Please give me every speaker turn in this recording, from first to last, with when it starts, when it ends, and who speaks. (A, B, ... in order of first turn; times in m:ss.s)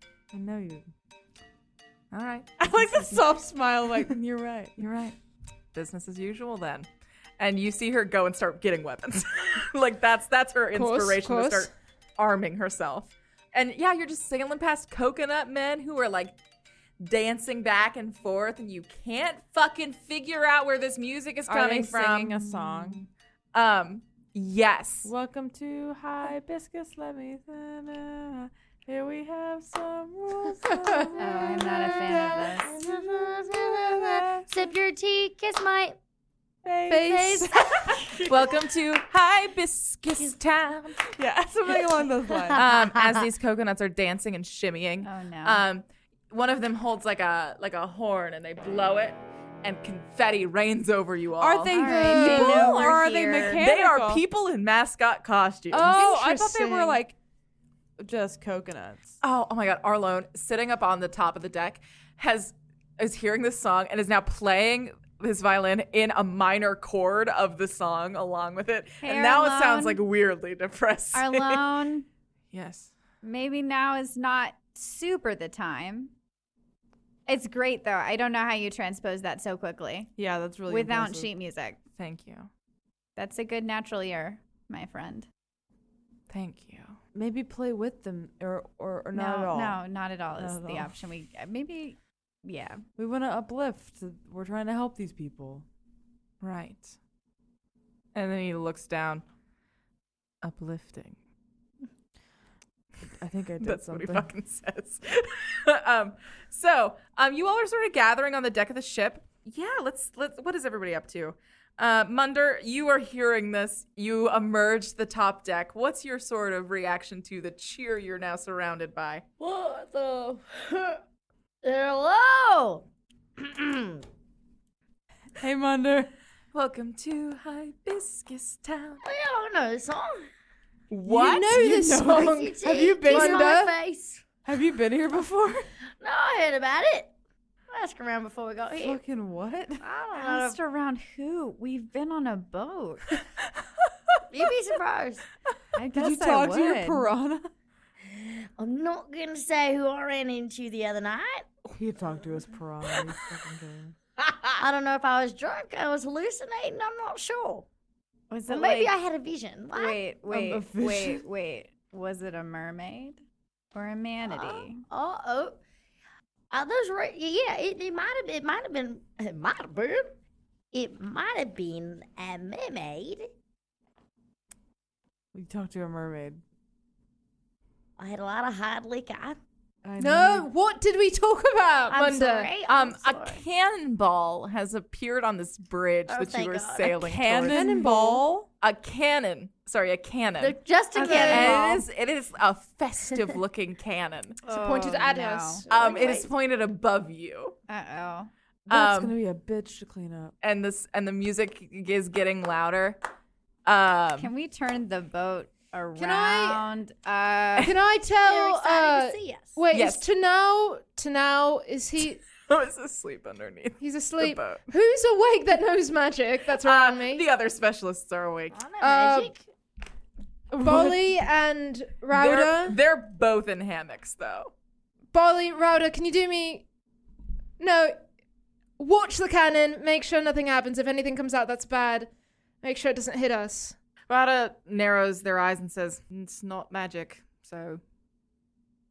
0:00.3-0:00.9 A
0:02.1-0:03.3 B
0:02.6-0:04.9 A
0:04.8-0:05.1 B
0:05.7-0:06.9 B
0:07.4-0:16.4 B
0:10.7-0:11.7 C
0:17.0-0:23.0 B
0:21.5-0:23.1 A
0:23.5-0:25.1 B
0:25.0-0:34.7 A
0:31.2-0:32.7 D
0:32.6-0:36.0 E
0:36.6-0:38.3 A
0:36.9-0:37.5 C
0:36.9-0:38.0 E
0:38.2-0:41.0 B
0:41.1-0:42.6 A
0:42.5-0:43.2 E
0:42.5-0:56.0 B
0:45.0-0:45.6 D
0:51.4-0:54.2 A
0:51.7-0:53.6 D
0:51.8-0:52.7 C
0:55.7-0:57.1 A
0:55.7-0:57.0 C
0:58.0-0:59.2 A
0:59.2-1:11.6 B
1:09.0-1:10.0 D
1:11.1-1:12.0 D
1:12.5-1:12.9 B
1:13.2-1:16.1 D
1:17.3-1:20.1 D
1:20.2-1:21.3 A
1:20.7-1:21.8 D
1:22.0-1:22.5 B
1:23.2-1:25.3 D
1:26.3-1:27.0 B
1:27.1-1:29.8 A
1:29.1-1:32.8 D
1:30.4-1:30.9 A
1:33.0-1:35.6 A
1:36.4-1:37.0 B
1:38.1-1:39.2 B
1:40.4-1:41.2 B
1:43.2-1:44.3 A
1:43.6-1:59.2 B
1:59.4-2:01.0 E
2:01.6-2:02.8 E
2:03.4-2:04.0 E
2:05.4-2:06.1 A
2:06.5-2:09.0 B
2:09.0-2:10.3 E
2:10.9-2:11.6 B
2:11.1-2:13.7 C
2:11.5-2:13.5 A
2:12.0-2:14.2 E
2:14.4-2:15.6 A
2:16.0-2:17.1 E
2:17.7-2:19.0 E
2:18.8-2:19.8 A
2:19.8-2:20.6 E
2:20.1-2:23.2 D
2:24.3-2:25.2 E
2:25.7-2:27.1 D
2:25.9-2:27.5 A
2:28.0-2:31.4 E
2:31.7-2:33.9 A
2:34.6-2:37.6 E
2:38.3-2:38.9 D
2:38.5-2:40.0 E
2:39.7-2:43.2 D
2:40.3-2:41.2 A
2:43.7-2:44.8 D
2:44.2-2:45.6 E
2:46.5-2:50.1 E
2:50.7-2:53.3 E
2:55.3-2:56.4 A
2:58.0-2:59.4 E
2:59.8-3:00.5 A
3:00.0-3:02.5 C
3:01.9-3:03.4 E
3:02.6-3:07.6 B
3:06.1-3:07.1 E
3:07.0-3:08.5 A
3:07.4-3:08.2 C
3:08.6-3:14.4 B
3:10.4-3:11.8 E
3:10.9-3:11.8 C
3:14.4-3:15.6 D
3:14.4-3:15.7 C
3:15.7-3:16.3 E
3:15.7-3:17.6 B
3:17.7-3:18.3 D
3:18.7-3:20.3 A
3:18.7-3:19.2 B
3:20.4-3:23.0 B
3:23.6-3:24.3 B
3:24.2-3:27.8 D
3:26.0-3:26.6 C
3:27.6-3:32.2 C
3:28.2-3:29.5 E
3:29.7-3:30.0 B
3:32.4-3:34.6 B
3:33.8-3:37.3 C
3:36.6-3:38.6 B
3:38.5-3:39.4 E
3:38.8-3:39.4 C
3:40.5-3:41.0 A
3:40.5-3:42.8 C
3:42.1-3:44.5 B
3:45.1-3:46.6 C
3:47.6-3:48.0 C
3:48.8-3:52.1 C
3:52.6-3:53.8 C
3:54.1-3:57.8 B